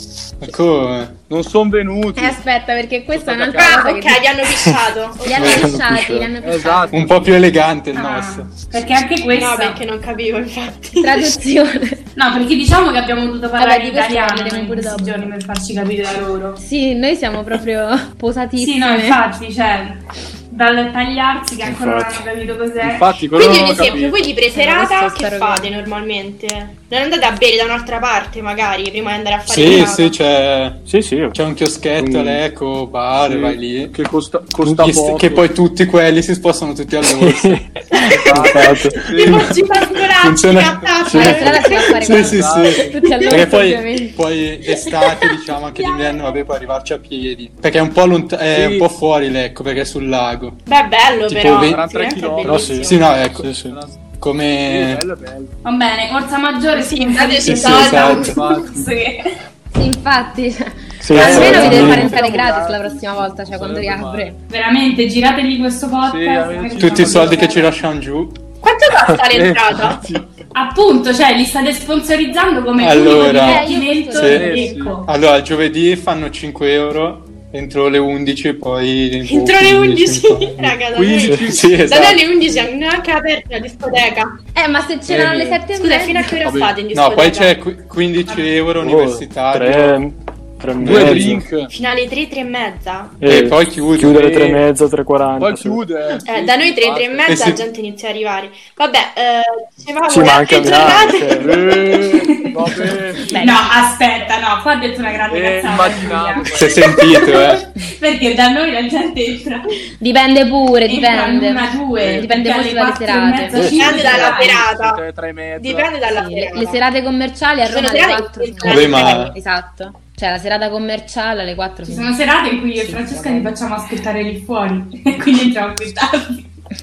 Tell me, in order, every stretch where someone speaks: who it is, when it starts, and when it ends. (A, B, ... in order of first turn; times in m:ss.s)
0:00.4-0:01.2 A
0:01.3-0:02.4 B
0:02.2-0:04.3 C
0:03.1-0:03.9 B
0:03.6-0:05.8 D
0:05.2-0:07.2 C
0:05.3-0:06.3 E
0:06.4-0:07.2 B
0:06.9-0:08.5 A
0:07.9-0:09.8 F
0:09.3-0:11.4 D
0:11.0-0:12.0 C
0:12.2-0:16.6 F
0:13.6-0:15.3 C
0:16.6-0:19.2 C
0:18.6-0:23.2 F
0:21.6-0:22.2 E
0:22.8-0:24.3 B
0:23.3-0:30.2 D
0:24.5-0:25.7 C
0:29.5-0:34.0 A
0:30.9-0:31.4 E
0:32.0-0:32.4 E
0:33.2-0:35.5 B
0:34.7-0:37.6 A
0:37.0-0:39.0 E
0:37.9-0:42.0 D
0:38.1-0:39.6 B
0:40.1-0:50.6 A
0:41.1-0:41.5 E
0:41.1-0:44.2 C
0:42.0-0:43.1 B
0:45.8-0:46.4 D
0:48.5-0:48.9 B
0:50.7-0:53.0 D
0:51.3-0:51.9 A
0:51.4-0:55.5 B
0:52.4-0:53.8 E
0:52.7-0:53.6 A
0:54.1-0:55.0 A
0:55.6-0:59.4 F
0:56.7-0:58.4 D
0:57.4-0:58.3 A
0:58.2-0:58.9 B
0:59.7-1:04.4 C
1:01.0-1:02.3 E
1:01.2-1:02.1 A
1:01.2-1:04.4 B
1:04.5-1:07.7 F
1:06.0-1:07.7 B
1:06.8-1:08.4 A
1:08.6-1:10.0 D
1:09.3-1:10.3 B
1:10.5-1:15.1 F
1:12.8-1:20.8 A
1:13.0-1:14.9 C
1:14.2-1:15.0 B
1:19.2-1:24.4 D
1:20.9-1:21.8 B
1:21.5-1:22.2 A
1:24.6-1:26.4 C
1:25.1-1:25.6 B
1:25.7-1:27.6 D
1:26.4-1:26.8 B
1:26.9-1:30.0 A
1:28.8-1:31.4 E
1:30.8-1:31.4 A
1:30.8-1:31.7 B
1:31.7-1:33.2 D
1:33.2-1:35.8 E
1:33.3-1:34.2 A
1:34.1-1:34.6 B
1:35.4-1:37.5 B
1:36.3-1:41.8 D
1:37.3-1:37.6 A
1:40.1-1:41.6 E
1:41.4-1:43.4 B
1:42.0-1:42.7 F
1:43.3-1:43.7 C
1:43.3-1:49.8 F
1:45.3-1:47.0 B
1:46.5-1:47.7 A
1:50.0-1:53.8 C
1:50.9-1:54.6 F
1:52.0-1:52.3 B
1:53.5-1:54.0 E
1:53.6-1:56.0 B
1:53.6-1:55.0 D
1:55.6-1:56.8 D
1:56.1-2:02.1 C
1:57.6-1:59.3 D
1:58.6-1:59.3 A
2:01.9-2:06.5 F
2:02.8-2:03.5 C